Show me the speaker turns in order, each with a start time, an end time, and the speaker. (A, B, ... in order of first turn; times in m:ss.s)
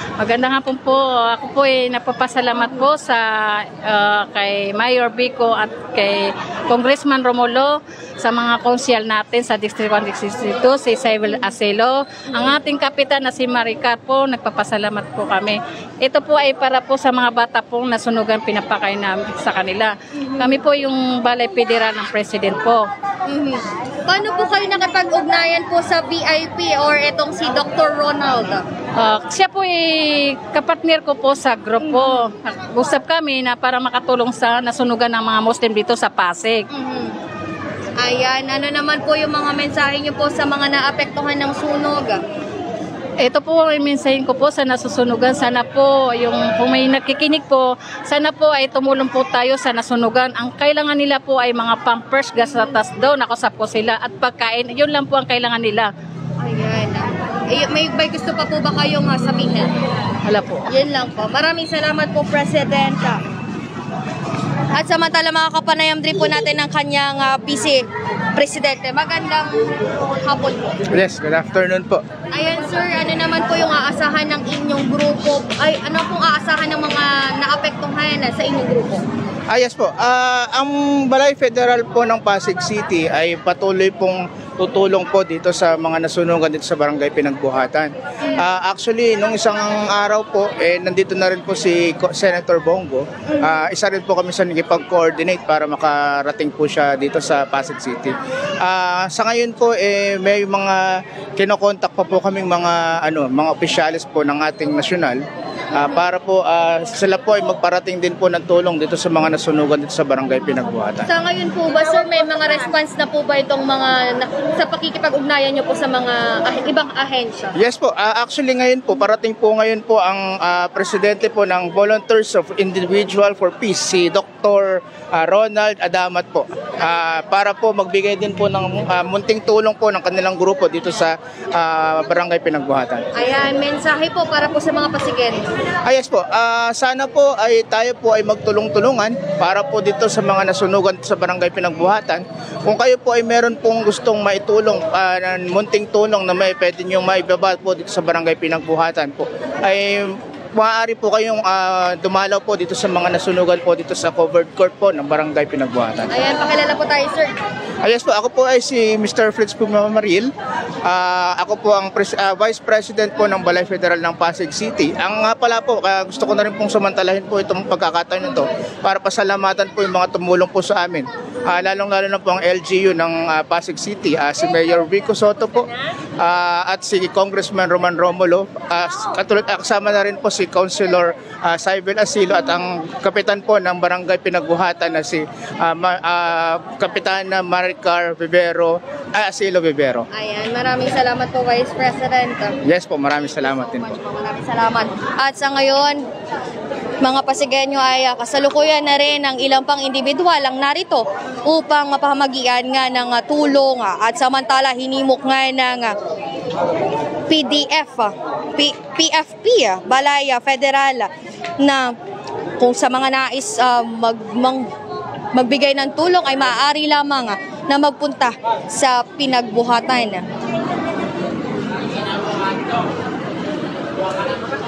0:00.2-0:22.9 A
0:20.2-0:20.5 B
0:23.3-0:28.6 B
0:29.0-0:36.7 A
0:31.8-0:32.3 B
0:36.7-0:37.2 B
0:38.0-0:42.2 B
0:43.2-0:55.9 A
0:56.4-0:59.7 B
1:00.2-1:00.7 A
1:00.7-1:03.2 B
1:04.7-1:09.7 B
1:10.2-1:10.8 B
1:10.9-1:12.0 C
1:12.3-1:19.0 B
1:19.5-1:45.2 C
1:45.7-1:51.1 C
1:51.1-1:57.6 B
1:57.6-2:13.0 C
2:13.2-2:15.5 B
2:15.8-2:36.1 C
2:36.1-2:37.3 B
2:37.8-2:40.3 C
2:40.8-3:10.1 C
3:10.1-3:12.6 B
3:12.6-3:13.9 C
3:13.4-3:16.0 B
3:17.0-3:26.0 B
3:27.3-3:31.1 B
3:31.6-3:31.9 B
3:32.6-3:34.7 B
3:35.3-3:40.2 B